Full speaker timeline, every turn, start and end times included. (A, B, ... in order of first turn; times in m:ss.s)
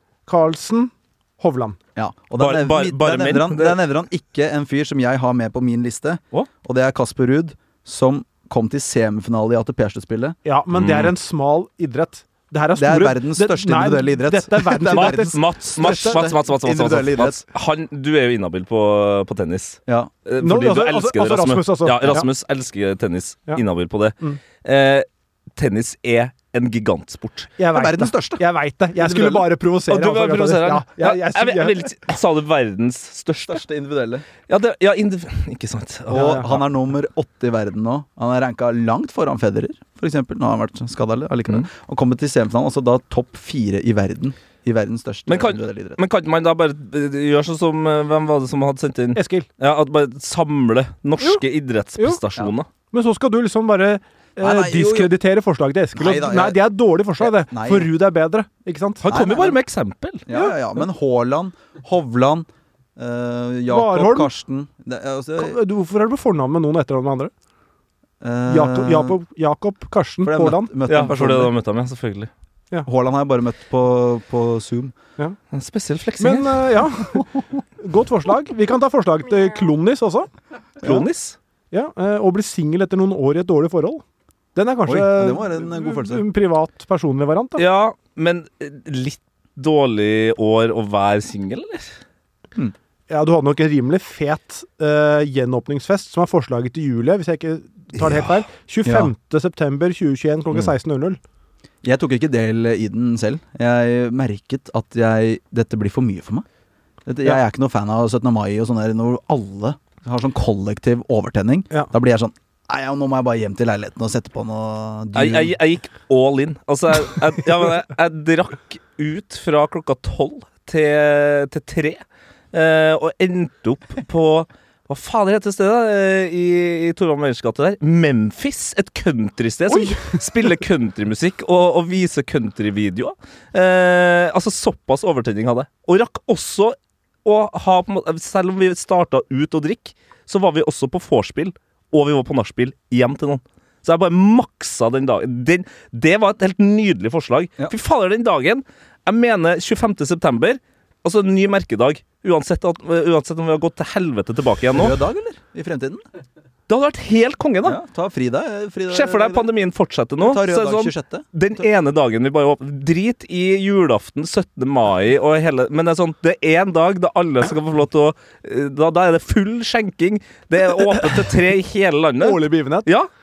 0:00.3-0:01.8 A
0:02.0-0:10.4 B
0:02.4-0:03.8 C
0:10.4-0:16.2 A
0:10.7-0:11.1 C
0:12.8-0:17.4 B
0:14.9-0:27.5 C
0:20.4-0:22.3 A
0:27.6-0:31.9 A
0:27.7-0:28.4 B
0:29.0-0:29.5 B
0:29.9-0:33.6 C
0:33.4-0:34.3 B
0:34.5-0:36.5 C
0:36.1-0:36.6 A
0:36.1-0:46.0 B
0:45.3-0:52.7 C
0:49.2-0:49.5 A
0:52.9-0:59.0 A
0:54.4-0:55.1 B
0:56.0-0:56.6 B
0:57.2-0:57.9 B
0:59.0-1:00.2 C
0:59.1-0:59.6 B
1:00.3-1:05.6 B
1:00.3-1:00.6 A
1:03.7-1:04.3 A
1:05.4-1:07.3 A
1:08.2-1:09.2 B
1:08.5-1:10.7 A
1:10.2-1:11.5 B
1:10.9-1:12.3 C
1:12.9-1:14.9 B
1:15.5-1:16.7 C
1:16.2-1:20.3 A
1:20.8-1:21.4 C
1:21.7-1:24.0 A
1:24.6-1:27.6 A
1:24.9-1:26.3 B
1:27.6-1:31.9 C
1:33.1-1:41.2 A
1:38.8-1:39.1 B
1:41.8-1:46.4 B
1:47.1-1:55.5 B
1:55.2-2:02.0 C
2:02.5-2:35.0 C
2:09.7-2:10.2 A
2:34.7-2:36.0 B
2:36.7-2:37.8 C
2:37.6-2:39.5 B
2:38.9-2:53.1 C
2:40.2-2:41.3 B
2:50.9-2:51.3 A
2:52.2-2:52.9 A